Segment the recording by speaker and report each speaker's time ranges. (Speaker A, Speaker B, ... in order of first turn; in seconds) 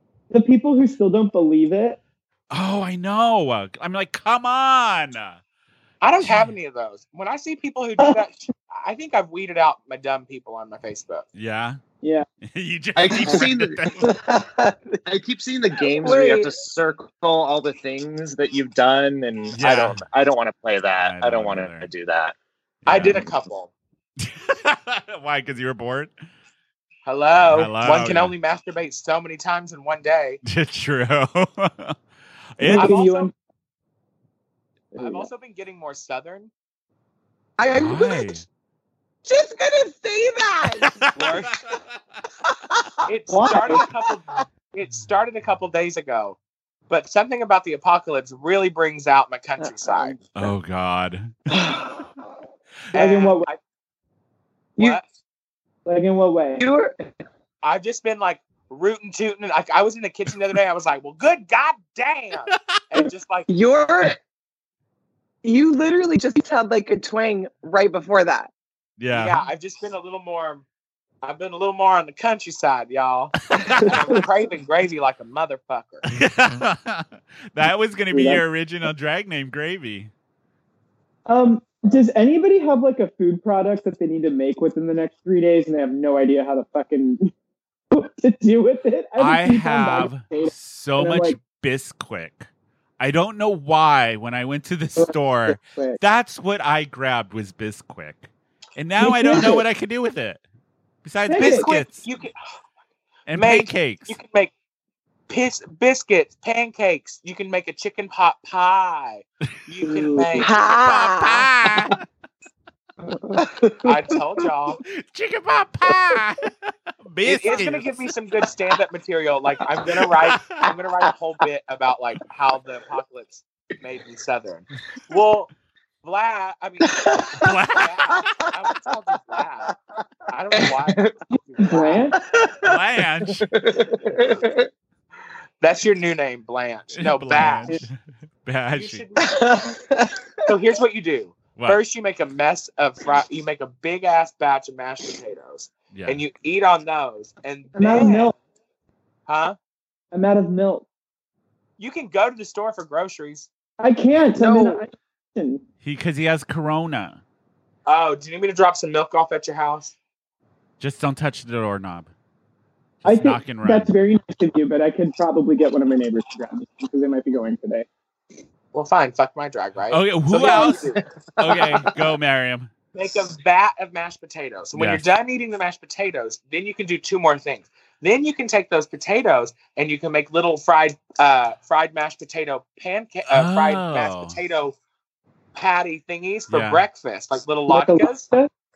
Speaker A: 0.3-2.0, 32.6-33.3, 34.9-35.3, 43.3-43.9, 52.9-53.5, 55.9-56.6, 73.8-74.3, 78.1-78.4, 81.3-87.3, 87.9-91.4, 95.0-96.0, 99.0-99.7, 101.3-101.8, 109.8-110.5, 131.6-132.2, 147.7-148.3, 150.1-150.9, 153.8-155.6, 163.1-167.9, 187.7-188.5
Speaker B: 2.5-5.4, 6.2-6.5, 11.3-11.8, 12.5-14.2, 19.5-20.0, 21.0-21.9, 22.9-23.3, 24.2-26.1, 27.4-28.3, 30.4-31.9, 32.6-32.9, 37.7-38.5, 40.8-41.7, 50.4-51.4, 69.0-69.4, 73.6-73.9, 76.1-80.1, 89.2-92.5, 93.0-100.4, 101.0-102.1, 103.3-104.2, 110.7-112.0, 114.9-116.5, 117.0-118.0, 127.4-127.9, 132.6-133.5, 136.9-139.1, 145.9-146.2, 155.8-157.2, 160.8-162.1, 163.0-163.9, 169.9-172.7, 174.8-175.0, 183.3-184.4, 186.5-186.8
Speaker C: 6.0-11.3, 22.9-23.7, 27.1-30.4, 32.7-33.3, 35.0-36.5, 41.1-41.6, 43.1-46.4, 46.9-50.2, 52.9-53.6, 54.8-55.0, 57.6-63.5, 69.1-70.7, 71.2-76.0, 101.4-102.3, 103.3-104.5, 105.3-110.6, 113.8-114.8, 117.2-125.5, 126.0-129.7, 130.3-132.1, 135.6-137.8, 138.7-139.8, 140.5-148.3, 149.3-149.6, 151.8-153.5, 157.9-159.9, 168.7-171.0, 172.9-184.8, 185.6-188.3
Speaker D: 13.0-13.8, 15.1-22.4, 133.3-134.6, 171.4-171.9
Speaker E: 14.1-14.8, 15.8-16.5, 37.6-38.4, 39.2-41.1, 43.0-43.9, 49.6-50.2, 56.6-57.0, 63.5-64.2, 65.4-68.5, 110.3-111.5, 127.0-127.4, 139.3-140.1, 154.4-154.8